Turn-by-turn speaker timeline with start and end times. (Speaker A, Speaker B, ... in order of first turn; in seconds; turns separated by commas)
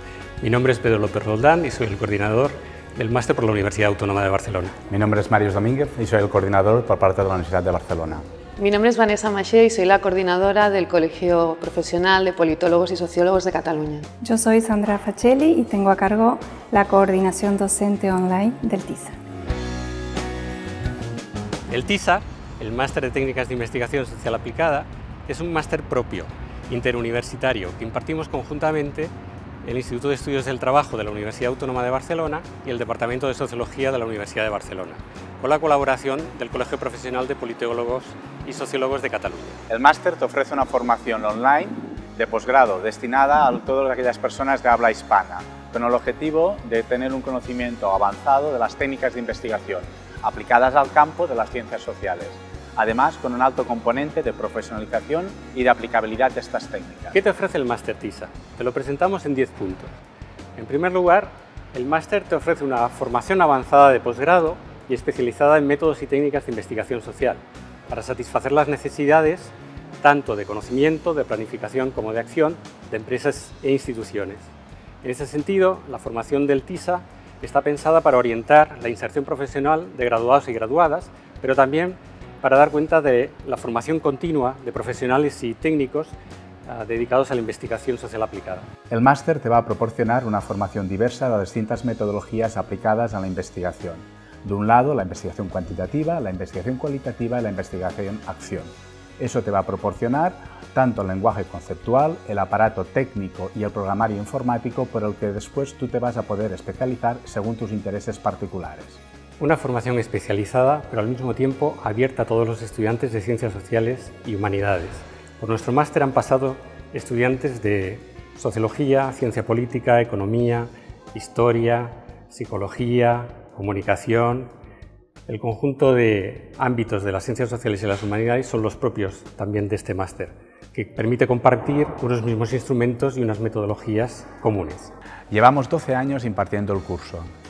Speaker A: 0.4-4.7, Speaker B: 4.9-8.2, Speaker C: 8.6-14.1, Speaker D: 14.2-19.2, Speaker A: 21.7-29.1, Speaker A: 29.6-39.6, Speaker B: 39.7-57.2, Speaker A: 57.1-60.0, Speaker A: 60.6-74.5, Speaker A: 75.0-86.2, Speaker A: 86.7-88.7, Speaker B: 88.9-109.0, Speaker A: 109.4-124.5, Speaker A: 125.3-134.9, Speaker B: 135.3-137.3